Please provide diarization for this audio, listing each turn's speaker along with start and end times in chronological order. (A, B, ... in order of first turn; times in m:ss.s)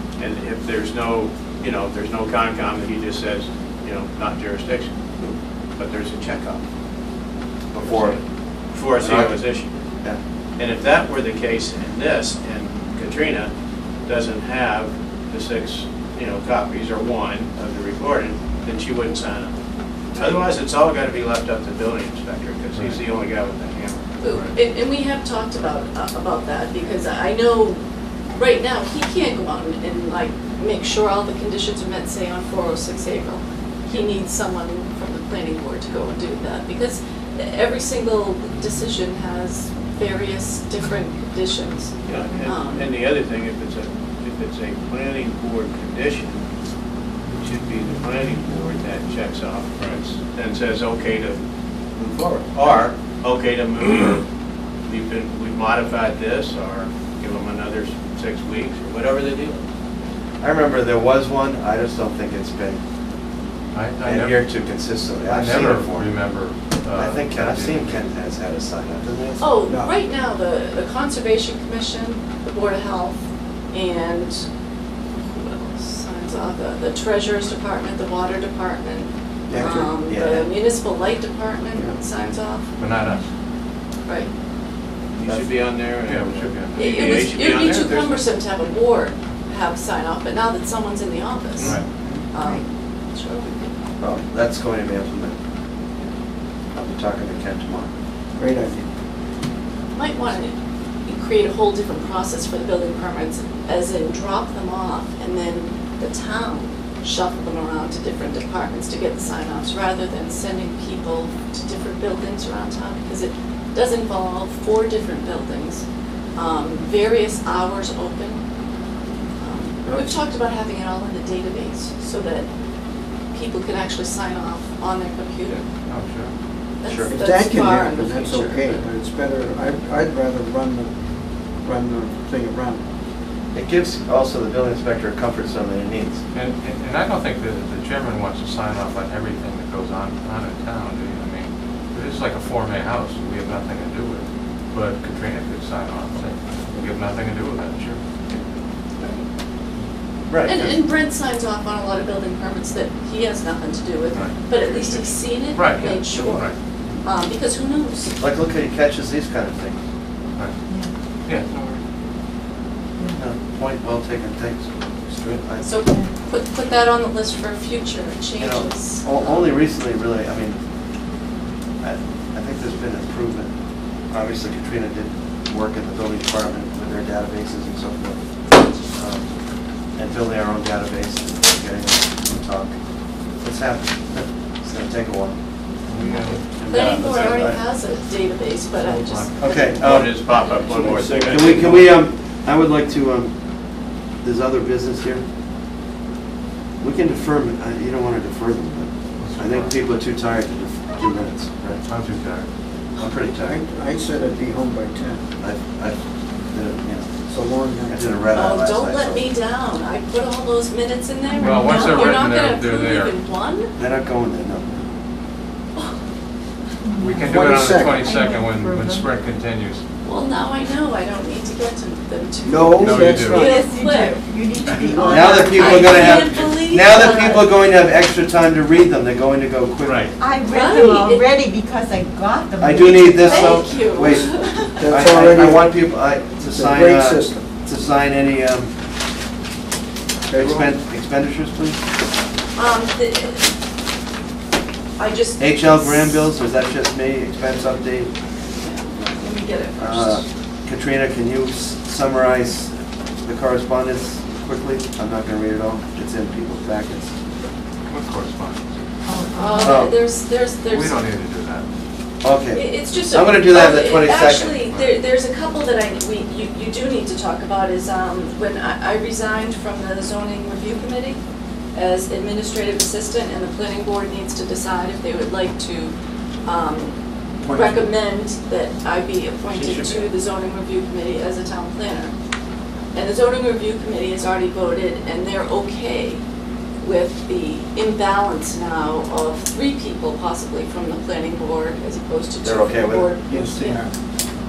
0:00.2-0:04.9 A
0:05.8-0:06.6 A
0:07.7-0:08.2 B
0:07.8-0:08.2 A
0:08.7-0:09.7 A
0:09.0-0:09.4 B
0:10.6-0:13.5 A
0:14.1-0:19.5 A
0:20.2-0:24.1 A
0:22.8-0:23.0 C
0:24.2-0:27.8 D
0:28.4-0:42.9 D
0:42.1-0:46.4 A
0:47.4-0:51.4 A
0:52.0-0:54.2 A
0:54.9-0:59.7 A
1:00.4-1:02.8 B
1:03.7-1:04.4 C
1:04.0-1:06.1 B
1:05.2-1:08.1 C
1:06.9-1:09.4 B
1:09.4-1:13.2 D
1:13.7-1:14.5 D
1:15.2-1:22.7 D
1:19.5-1:19.9 E
1:19.5-1:20.5 B
1:22.8-1:23.3 C
1:24.0-1:24.3 D
1:25.2-1:28.2 A
1:26.0-1:27.2 C
1:26.7-1:31.8 D
1:31.6-1:31.8 C
1:31.6-1:32.2 E
1:32.3-1:33.8 D
1:32.4-1:32.6 F
1:34.0-1:35.4 B
1:36.7-1:37.9 B
1:38.4-1:38.9 E
1:40.0-1:40.5 D
1:41.1-1:55.8 D
1:56.4-1:58.4 D
1:59.4-2:02.5 D
2:03.3-2:05.6 D
2:05.9-2:06.3 C
2:06.8-2:08.8 D
2:06.9-2:07.2 B
2:07.1-2:10.9 E
2:11.6-2:12.8 E
2:13.5-2:16.2 B
2:16.3-2:28.0 C
2:29.0-2:29.3 D
2:30.3-2:30.6 B
2:30.4-2:36.5 D
2:35.5-2:36.5 C
2:37.0-2:38.2 D
2:38.2-2:39.8 B
2:43.2-2:45.7 B
2:45.6-2:49.5 D
2:45.8-2:46.1 F
2:48.4-2:50.6 B
2:51.8-2:53.5 B
2:54.1-2:58.2 B
2:58.9-2:59.3 B
3:00.0-3:02.7 B
3:03.4-3:05.4 B
3:05.9-3:07.1 C
3:06.6-3:07.6 B
3:06.6-3:09.8 D
3:08.8-3:09.3 C
3:09.4-3:10.2 B
3:09.8-3:11.9 A
3:10.4-3:10.8 D
3:11.0-3:13.3 B
3:14.2-3:15.2 B
3:16.8-3:21.8 B
3:19.2-3:19.8 C
3:21.8-3:22.5 C
3:23.0-3:23.6 B
3:23.5-3:25.2 E
3:25.4-3:26.0 B
3:26.5-3:27.1 B
3:27.3-3:28.1 E
3:27.9-3:29.3 B
3:28.3-3:33.7 D
3:31.3-3:32.0 F
3:31.4-3:33.1 C
3:33.8-3:34.8 B
3:36.8-3:39.1 F
3:37.0-3:39.8 C
3:37.3-3:38.0 E
3:40.0-3:44.2 D
3:42.5-3:43.4 E
3:42.8-3:43.6 C
3:43.4-3:46.3 F
3:45.0-3:50.1 B
3:45.1-3:47.5 D
3:49.8-3:50.1 A
3:50.2-3:53.7 F
3:50.5-3:51.3 D
3:52.6-3:58.7 B
3:53.1-3:55.0 D
3:54.8-3:55.7 E
3:56.4-3:57.5 E
4:00.3-4:00.7 E
4:00.3-4:01.8 B
4:02.6-4:03.5 D
4:05.0-4:06.1 D
4:05.4-4:08.1 B
4:08.6-4:10.2 D
4:09.8-4:17.1 B
4:17.9-4:18.6 C
4:19.1-4:19.8 F
4:19.3-4:21.0 D
4:19.6-4:19.9 B
4:20.7-4:21.7 C
4:22.2-4:24.6 B
4:22.5-4:31.2 D
4:24.6-4:24.9 C
4:31.8-4:35.9 D
4:36.4-4:42.1 D
4:39.5-4:40.0 A
4:42.9-4:46.2 D
4:46.8-4:53.9 D
4:52.4-4:53.1 B
4:53.3-4:53.9 E